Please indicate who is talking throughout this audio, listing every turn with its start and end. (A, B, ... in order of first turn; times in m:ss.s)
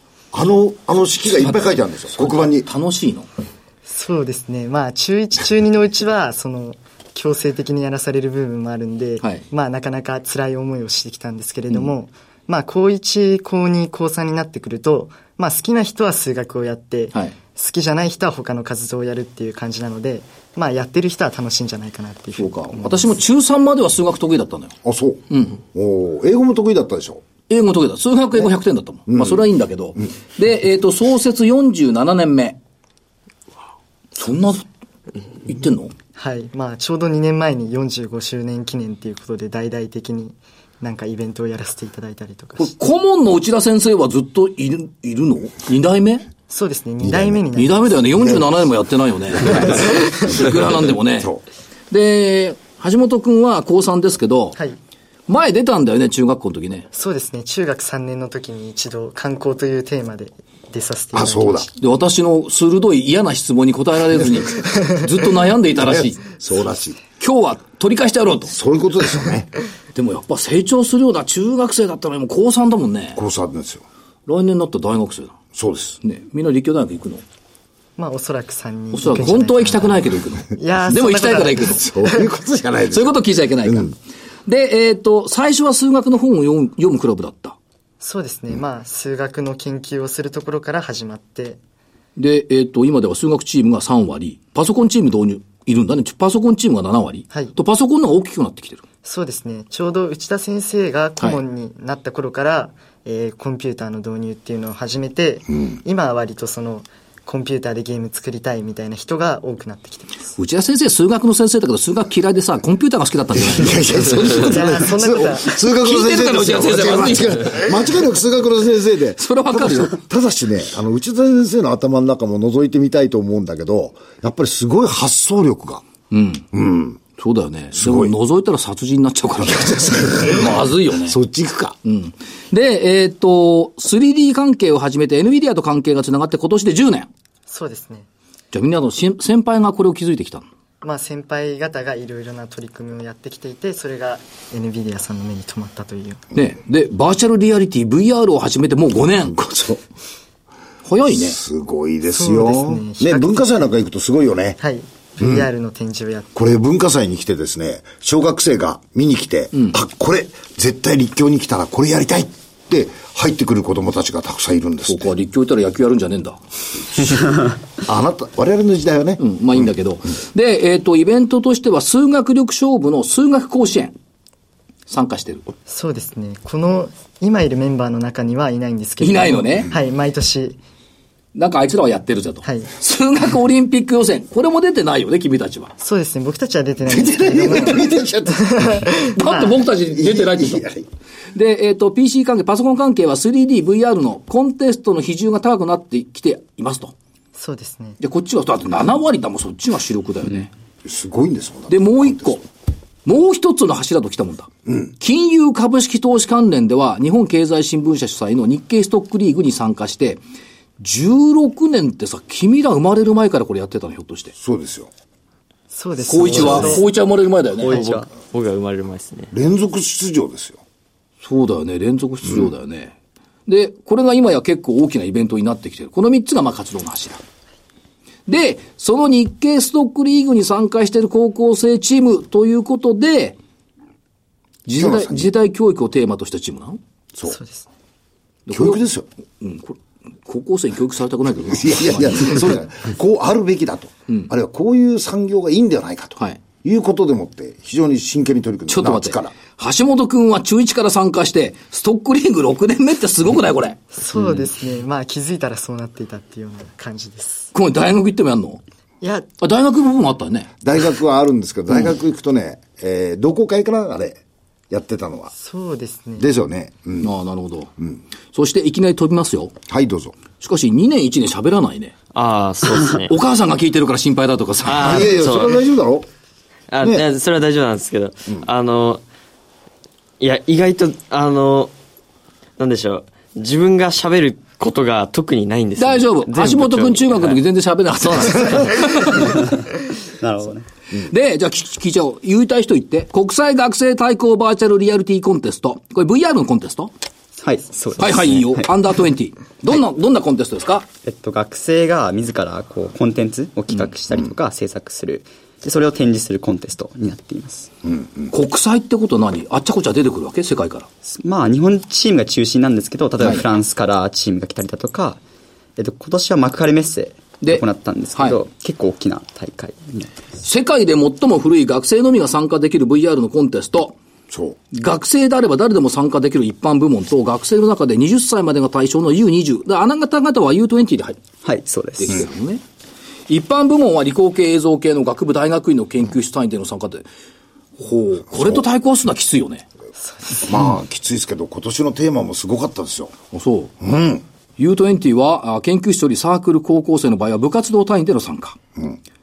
0:00.3-0:02.7 A
0:01.4-0:03.3 B
0:03.9-0:23.1 C
0:22.4-0:24.8 B
0:24.8-0:27.2 A
0:25.3-0:25.6 B
0:27.5-0:32.6 B
0:29.1-0:29.5 A
0:34.2-0:34.7 B
0:35.4-0:35.9 B
0:36.2-0:42.7 C
0:42.6-0:46.3 B
0:46.5-0:48.4 C
0:47.0-0:47.4 A
0:47.6-0:51.3 B
0:51.2-0:51.4 A
0:51.9-0:54.6 B
0:55.3-0:56.9 B
0:56.9-1:01.7 C
1:01.1-1:01.7 A
1:01.8-1:06.2 B
1:05.8-1:07.0 A
1:07.2-1:08.6 B
1:08.5-1:09.5 A
1:10.0-1:13.2 B
1:13.2-1:13.8 A
1:14.3-1:15.4 B
1:15.6-1:16.0 A
1:16.0-1:17.2 B
1:18.0-1:22.3 C
1:18.9-1:21.8 B
1:21.7-1:23.9 A
1:22.9-1:23.9 B
1:24.5-1:27.6 B
1:28.0-1:31.6 C
1:32.2-1:38.8 B
1:39.0-1:50.3 C
1:50.4-1:57.7 B
1:53.3-2:05.8 A
1:54.4-1:55.5 C
1:59.2-2:00.0 B
2:06.1-2:06.5 B
2:06.5-2:07.0 A
2:07.2-2:11.2 B
2:07.7-2:08.1 A
2:09.4-2:11.8 A
2:11.8-2:17.1 B
2:17.5-2:18.1 C
2:18.5-2:20.5 B
2:20.8-2:26.2 C
2:26.4-2:29.4 B
2:29.2-2:29.8 A
2:30.8-2:31.4 B
2:31.1-2:34.6 A
2:32.1-2:33.7 C
2:34.6-2:36.3 C
2:35.2-2:35.5 A
2:36.4-2:45.1 A
2:44.9-2:46.4 B
2:47.8-2:49.2 A
2:49.2-2:54.0 B
2:54.9-2:55.5 B
2:55.7-3:00.6 C
2:59.0-2:59.7 B
3:01.4-3:05.7 B
3:02.4-3:02.7 C
3:05.8-3:09.6 C
3:06.8-3:08.8 A
3:09.2-3:10.6 B
3:09.9-3:10.9 A
3:11.3-3:16.9 B
3:17.4-3:18.0 C
3:18.0-3:20.5 B
3:20.8-3:22.4 A
3:21.7-3:22.4 B
3:23.0-3:30.2 B
3:24.7-3:24.9 A
3:30.8-3:34.3 B
3:34.4-3:34.9 A
3:35.7-3:36.9 C
3:36.1-3:37.8 B
3:36.4-3:36.7 A
3:37.6-3:38.1 D
3:37.7-3:39.3 E
3:39.3-3:40.6 A
3:41.2-3:43.0 B
3:43.5-3:47.2 B
3:48.3-3:53.4 B
3:54.7-3:56.8 B
3:54.7-3:55.3 A
3:57.3-3:57.7 C
3:58.5-3:58.8 B
3:58.5-3:59.1 A
3:59.4-4:02.5 B
4:01.5-4:09.3 A
4:08.7-4:14.4 B
4:13.9-4:17.5 C
4:17.5-4:18.6 B
4:19.0-4:19.3 C
4:19.4-4:20.5 B
4:20.6-4:24.2 A
4:24.7-4:25.3 A
4:25.4-4:26.3 C
4:26.2-4:27.1 A
4:27.0-4:27.7 B
4:28.3-4:29.5 B
4:29.7-4:30.2 A
4:30.4-4:31.9 B
4:32.1-4:33.1 E
4:33.1-4:35.1 B
4:34.6-4:35.6 E
4:34.8-4:36.1 A
4:36.7-4:39.0 E
4:40.2-4:41.7 E
4:42.6-4:47.4 E
4:45.8-4:49.5 B
4:48.0-4:49.2 E
4:49.2-4:49.6 D
4:50.2-4:50.7 D
4:51.0-4:56.9 B
4:57.4-4:58.7 D
4:58.0-5:00.9 B
5:01.0-5:07.7 D
5:07.9-5:08.3 A
5:08.3-5:10.9 B
5:11.1-5:15.2 D
5:13.2-5:13.4 B
5:15.8-5:20.1 D
5:17.4-5:18.4 B
5:20.4-5:24.0 B
5:24.3-5:24.6 A
5:24.7-5:31.2 B
5:31.4-5:32.2 D
5:32.0-5:32.6 B
5:33.3-5:37.1 B
5:37.8-5:39.7 B
5:40.0-5:40.5 C
5:40.4-5:43.2 A
5:43.3-5:43.7 B
5:43.8-5:44.2 A
5:44.6-5:48.6 B